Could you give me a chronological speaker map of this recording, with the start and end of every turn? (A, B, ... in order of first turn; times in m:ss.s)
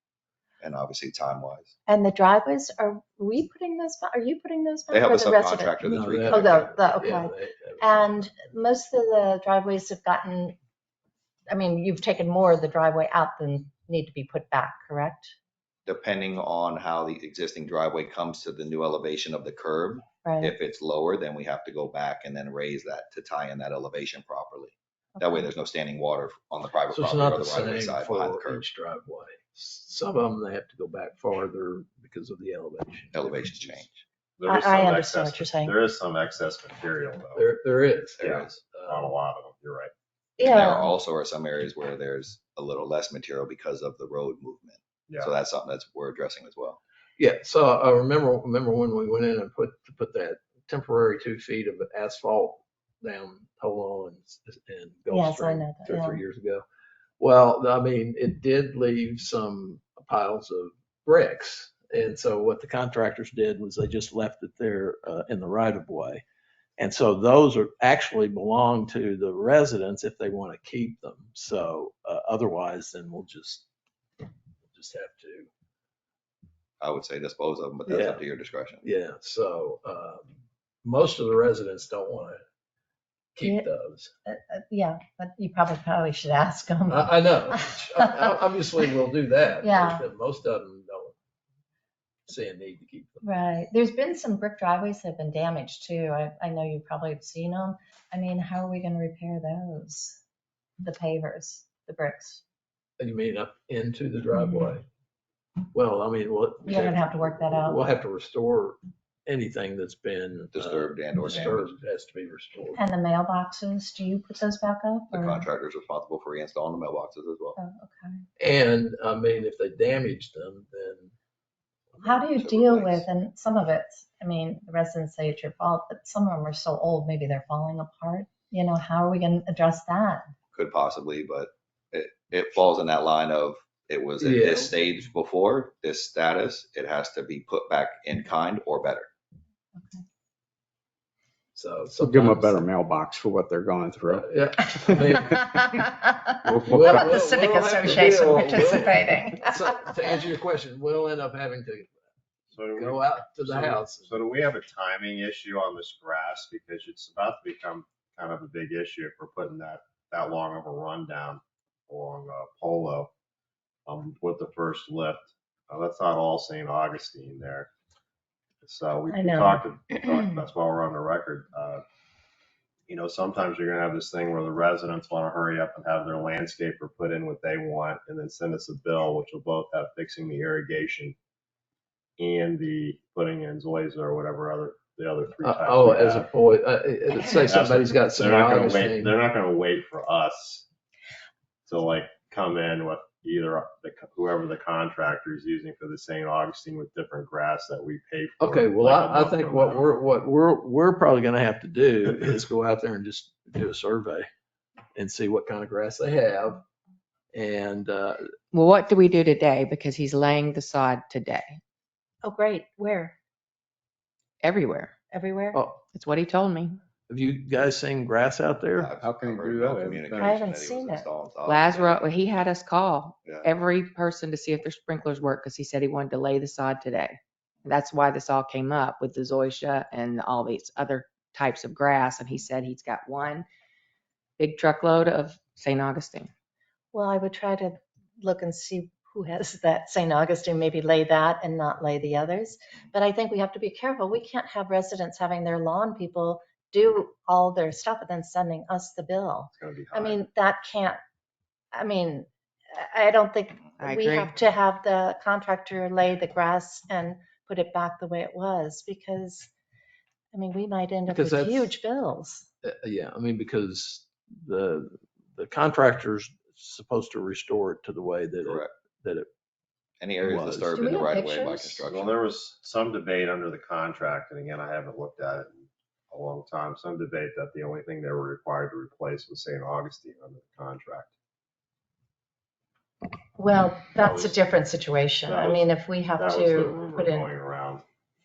0:00.6-0:01.7 A
0:01.9-0:10.6 B
0:04.9-0:06.7 A
0:05.8-0:08.3 C
0:11.5-0:15.3 B
0:15.9-0:28.7 A
0:20.2-0:20.5 B
0:25.2-0:25.4 B
0:26.9-0:33.8 C
0:33.1-0:34.0 A
0:34.4-0:37.5 D
0:34.4-0:35.8 B
0:37.4-0:39.1 C
0:38.2-0:39.9 D
0:38.2-0:38.5 A
0:40.4-0:40.9 B
0:40.4-0:46.8 A
0:47.2-0:56.6 C
0:55.1-0:56.2 B
0:57.2-1:06.2 C
1:06.8-1:13.6 C
1:14.6-1:15.5 C
1:16.8-1:18.8 A
1:17.9-1:18.2 C
1:18.8-1:22.4 C
1:23.4-1:24.1 C
1:24.3-1:28.8 B
1:26.9-1:31.2 C
1:29.6-1:30.0 B
1:32.3-1:33.2 C
1:33.2-1:40.2 B
1:40.8-1:42.4 B
1:43.0-1:44.8 C
1:45.7-1:52.8 C
1:46.6-1:47.9 B
1:50.5-1:51.7 A
1:52.8-1:55.4 B
1:55.1-1:57.6 A
1:57.6-1:58.2 B
1:58.4-2:01.1 C
2:02.0-2:03.1 A
2:02.0-2:10.3 B
2:10.5-2:19.1 A
2:14.2-2:14.8 C
2:19.8-2:20.0 B
2:21.5-2:22.6 C
2:22.0-2:25.2 E
2:24.2-2:25.7 C
2:25.2-2:30.0 B
2:26.5-2:27.3 E
2:26.6-2:31.9 C
2:32.5-2:43.1 D
2:32.7-2:34.1 C
2:43.9-2:47.7 D
2:48.6-2:51.8 D
2:49.1-2:49.6 B
2:52.9-3:01.2 D
3:02.2-3:06.3 D
3:05.4-3:09.2 C
3:07.3-3:10.7 D
3:11.7-3:19.8 D
3:18.4-3:24.3 C
3:25.0-3:26.6 C
3:27.3-3:28.3 C
3:28.5-3:31.6 F
3:32.2-3:33.2 B
3:34.4-3:34.9 F
3:35.1-3:35.6 B
3:35.5-3:35.8 C
3:35.9-3:36.8 F
3:37.1-3:39.0 C
3:38.8-3:42.1 A
3:39.0-3:40.3 E
3:40.2-3:41.1 B
3:41.5-3:53.5 F
3:54.4-3:56.3 F
3:56.9-4:11.0 B
4:09.5-4:10.2 D
4:11.7-4:19.5 B
4:13.8-4:14.3 F
4:20.3-4:22.5 B
4:21.1-4:21.8 C
4:22.6-4:29.3 C
4:28.4-4:28.7 A
4:30.0-4:32.2 A
4:30.2-4:30.9 C
4:30.8-4:31.9 B
4:31.9-4:41.1 D
4:43.4-4:47.3 B
4:44.0-4:44.4 D
4:45.3-4:47.8 D